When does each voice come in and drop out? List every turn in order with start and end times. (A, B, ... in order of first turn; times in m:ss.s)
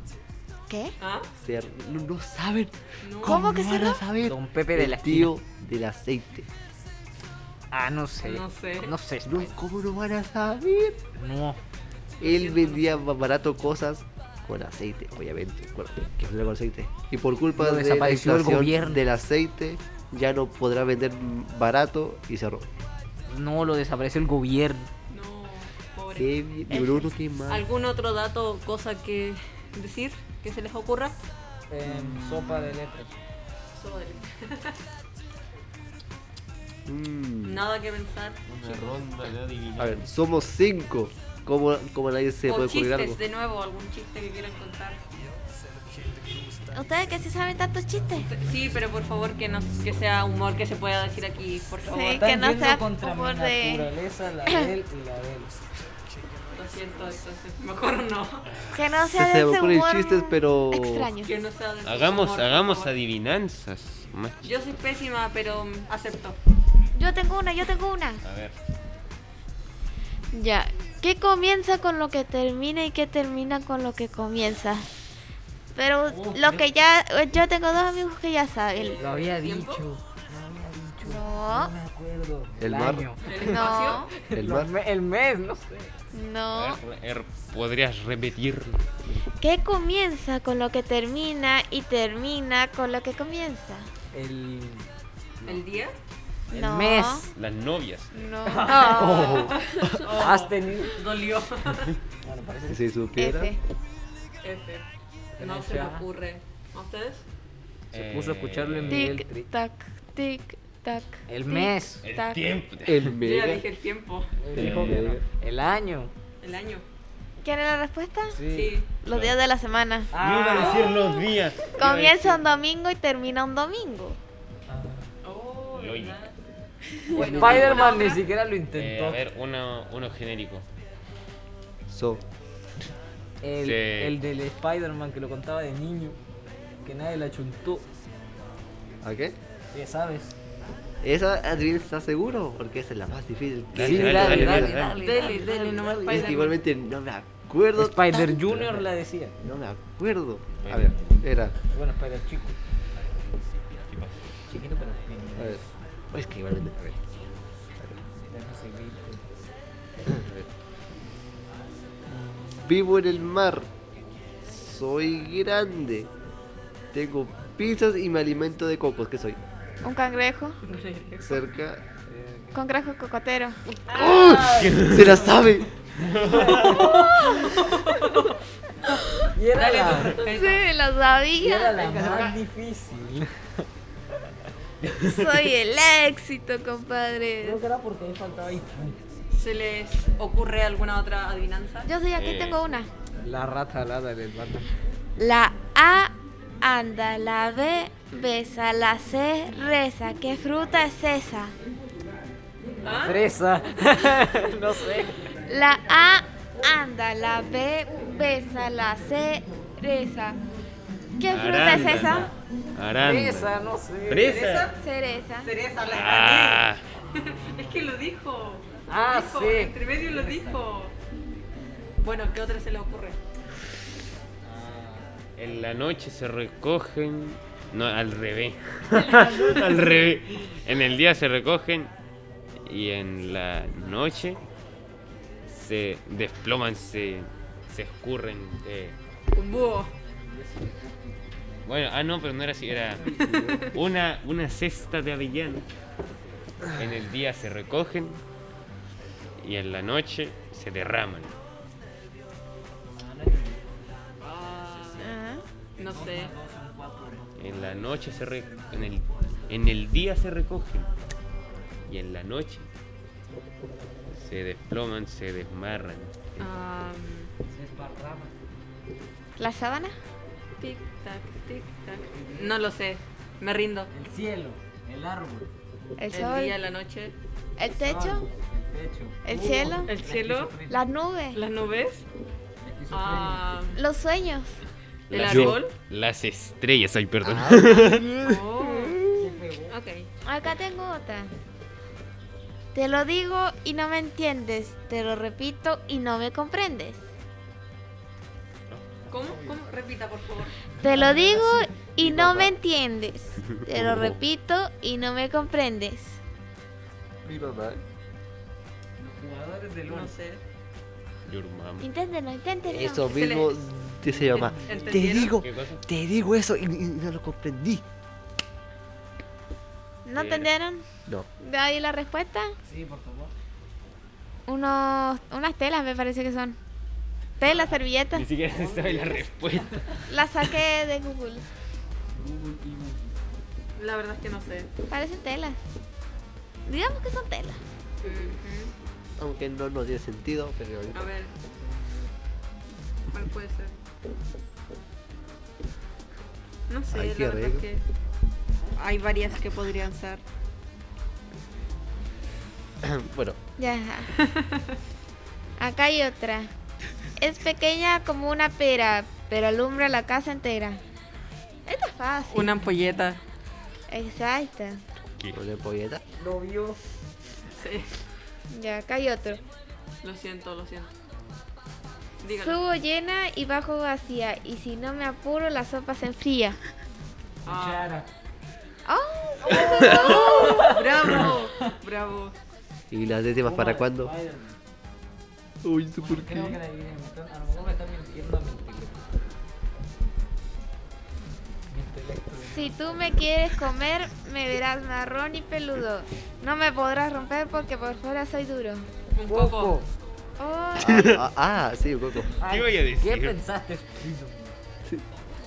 0:00.7-0:00.9 A
0:01.0-0:01.3 B
0:01.4-0:06.5 C
0:03.0-0:03.4 B
0:03.2-0:04.0 A
0:04.2-0:05.3 D
0:07.7-0:09.5 D
0:08.2-0:08.9 B
0:09.2-0:11.0 C
0:11.2-0:11.6 D
0:12.2-0:12.9 B
0:12.2-0:22.7 C
0:17.6-0:19.0 D
0:23.3-0:24.9 D
0:25.1-0:26.3 B
0:26.1-0:27.7 C
0:26.7-0:27.1 A
0:27.5-0:31.1 B
0:31.7-0:33.2 D
0:31.8-0:32.7 C
0:33.7-0:34.8 B
0:36.8-0:37.6 C
0:37.4-0:38.9 B
0:38.5-0:40.0 E
0:39.8-0:43.2 C
0:42.4-0:45.0 B
0:46.7-0:48.3 A
0:48.2-0:52.3 B
0:51.8-0:53.9 A
0:52.2-0:55.6 D
0:56.5-0:58.5 B
0:58.5-0:58.8 E
0:58.7-1:01.3 A
0:59.0-1:01.1 C
1:01.2-1:02.9 B
1:01.8-1:04.5 E
1:04.4-1:06.4 B
1:06.9-1:08.2 A
1:08.2-1:08.6 E
1:10.3-1:14.9 A
1:15.7-1:19.0 A
1:16.1-1:16.7 D
1:18.8-1:19.8 B
1:19.0-1:23.3 D
1:21.0-1:21.7 A
1:22.6-1:23.5 C
1:23.2-1:24.1 B
1:23.4-1:24.1 A
1:24.2-1:25.9 D
1:24.3-1:24.7 C
1:26.1-1:26.8 A
1:26.5-1:28.8 E
1:29.4-1:33.9 A
1:34.1-1:34.9 D
1:35.4-1:36.0 B
1:36.5-1:37.3 A
1:36.5-1:37.3 D
1:37.3-1:38.1 E
1:38.1-1:39.9 A
1:38.4-1:39.3 D
1:38.6-1:42.0 B
1:38.8-1:40.1 C
1:40.1-1:41.0 D
1:42.2-1:42.8 D
1:42.7-1:43.5 C
1:43.2-1:43.6 A
1:44.4-1:44.8 B
1:45.4-1:46.0 D
1:45.4-1:47.2 B
1:47.9-1:49.1 E
1:47.9-1:49.5 D
1:48.9-1:52.4 A
1:51.3-1:52.0 D
1:52.0-1:53.2 E
1:52.8-1:53.6 C
1:53.2-1:54.3 B
1:54.4-1:56.1 D
1:54.5-1:55.2 C
1:54.6-1:55.0 E
1:56.4-1:56.8 B
1:57.4-1:58.4 A
1:58.3-1:58.8 D
1:58.5-1:58.9 B
1:59.0-2:00.1 A
1:59.0-1:59.4 E
2:00.1-2:01.0 D
2:00.1-2:02.5 E
2:00.5-2:00.9 B
2:01.0-2:01.2 A
2:01.8-2:04.2 A
2:04.7-2:05.1 D
2:05.2-2:06.3 B
2:05.7-2:06.3 E
2:07.1-2:08.0 A
2:07.1-2:08.2 B
2:07.1-2:07.7 C
2:07.2-2:09.2 D
2:08.7-2:10.6 E
2:11.9-2:12.2 C
2:13.4-2:16.2 D
2:13.6-2:14.2 E
2:16.8-2:17.8 D
2:19.0-2:19.3 C
2:19.7-2:20.3 D
2:21.0-2:24.8 C
2:23.7-2:25.0 E
2:23.8-2:26.4 D
2:24.6-2:25.5 A
2:24.8-2:26.6 B
2:26.1-2:28.8 C
2:27.8-2:29.4 D
2:29.4-2:31.5 C
2:30.6-2:31.2 E
2:31.6-2:32.6 D
2:33.9-2:34.2 E
2:34.5-2:35.7 D
2:35.4-2:37.2 C
2:38.2-2:39.3 D
2:40.0-2:40.5 C
2:42.2-2:43.7 C
2:44.4-2:46.1 C
2:46.9-2:49.4 C
2:49.8-2:50.6 A
2:50.6-2:51.4 B
2:51.2-2:51.8 C
2:52.1-2:52.6 D
2:52.5-2:53.6 A
2:53.8-2:58.0 D
2:53.9-2:55.6 C
2:54.4-2:55.2 E
2:56.0-2:56.9 E
2:56.6-2:58.3 B
2:59.3-3:00.3 D
2:59.5-3:00.7 B
3:00.3-3:02.2 A
3:01.4-3:03.6 D
3:01.8-3:02.3 C
3:04.8-3:05.4 E
3:05.0-3:07.6 A
3:07.4-3:09.0 D
3:09.3-3:11.9 B
3:11.8-3:12.9 A
3:12.1-3:12.6 E
3:13.2-3:14.7 D
3:15.2-3:21.5 A
3:22.8-3:23.2 B
3:23.0-3:25.3 D
3:25.5-3:30.4 A
3:31.2-3:32.3 A
3:31.3-3:34.8 E
3:31.6-3:32.3 D
3:33.0-3:34.6 D
3:34.3-3:34.7 B
3:34.8-3:35.5 A
3:35.4-3:40.9 B
3:35.8-3:36.9 E
3:37.2-3:37.8 D
3:38.9-3:40.6 D
3:42.0-3:43.2 B
3:44.4-3:45.2 D
3:45.4-3:51.9 E
3:48.9-3:50.1 D
3:52.6-3:54.4 E
3:55.4-3:59.0 E
3:59.3-3:59.9 B
4:00.0-4:01.6 D
4:01.6-4:05.7 E
4:02.7-4:03.7 D
4:03.3-4:03.6 C
4:03.3-4:03.7 B
4:06.7-4:08.2 E
4:09.4-4:11.3 E
4:12.9-4:13.7 D
4:14.2-4:15.2 B
4:15.0-4:15.4 A
4:15.8-4:16.3 B
4:15.8-4:19.0 D
4:17.4-4:20.9 E
4:21.9-4:22.7 E
4:24.1-4:26.1 E
4:26.4-4:27.3 B
4:27.5-4:28.3 D
4:29.4-4:29.9 A
4:30.6-4:33.9 B
4:32.1-4:32.6 D
4:33.9-4:35.5 D
4:36.0-4:36.6 A
4:36.1-4:37.2 B
4:37.6-4:38.3 A
4:37.7-4:40.8 D
4:39.2-4:39.9 A
4:39.8-4:40.5 B
4:40.7-4:41.4 A
4:41.3-4:42.0 B
4:42.6-4:43.8 D
4:42.9-4:43.8 B
4:43.8-4:44.6 A
4:45.1-4:48.1 E
4:45.1-4:45.7 B
4:45.2-4:45.6 C
4:47.2-4:49.2 C
4:48.2-4:49.0 B
4:49.1-4:49.8 D
4:49.7-4:50.1 B
4:50.2-4:51.3 A
4:52.7-4:57.0 A
4:59.0-4:59.6 D
4:59.1-5:00.6 B
5:00.8-5:06.2 A
5:00.9-5:01.6 D
5:02.0-5:02.6 C
5:03.4-5:04.2 E
5:07.2-5:07.8 C
5:09.0-5:10.1 D
5:09.9-5:10.4 B
5:11.2-5:11.9 E
5:11.8-5:13.2 A
5:12.7-5:17.8 C
5:13.1-5:13.7 B
5:14.0-5:15.1 D
5:14.3-5:15.3 B
5:15.4-5:15.8 E
5:20.0-5:20.8 A
5:20.1-5:20.5 E
5:21.4-5:22.5 A
5:22.6-5:23.3 D
5:24.5-5:26.6 A
5:27.4-5:28.2 A
5:28.1-5:30.0 E
5:28.5-5:30.0 D
5:30.1-5:31.4 A
5:32.1-5:33.2 D
5:33.8-5:34.7 B
5:34.9-5:35.6 A
5:36.6-5:37.6 A
5:38.0-5:38.7 B
5:39.2-5:41.1 C
5:40.9-5:41.3 B
5:41.6-5:42.1 D
5:43.1-5:43.8 B
5:46.7-5:47.8 B
5:46.9-5:47.6 C
5:48.7-5:50.2 B
5:52.8-5:53.4 C
5:53.6-5:54.1 A
5:54.2-5:54.8 B
5:55.6-5:56.5 A
5:57.2-6:00.8 A
6:01.6-6:02.5 A
6:02.3-6:03.2 B
6:03.9-6:04.8 A
6:05.1-6:05.4 E
6:05.3-6:06.0 C
6:06.2-6:06.8 D
6:07.6-6:07.9 B
6:08.5-6:09.4 A
6:10.0-6:10.9 B
6:12.2-6:12.6 B
6:12.4-6:16.6 A
6:17.4-6:18.1 D
6:17.4-6:17.9 B
6:18.8-6:20.6 A
6:19.4-6:21.7 D
6:19.7-6:22.3 B
6:22.9-6:24.1 C
6:23.4-6:24.6 D
6:25.6-6:26.6 C
6:26.0-6:29.0 D
6:31.7-6:33.3 D
6:32.5-6:38.9 A
6:39.2-6:39.8 B
6:39.2-6:39.8 D
6:40.4-6:41.0 A
6:40.8-6:42.3 C
6:42.4-6:44.5 D
6:42.4-6:43.4 E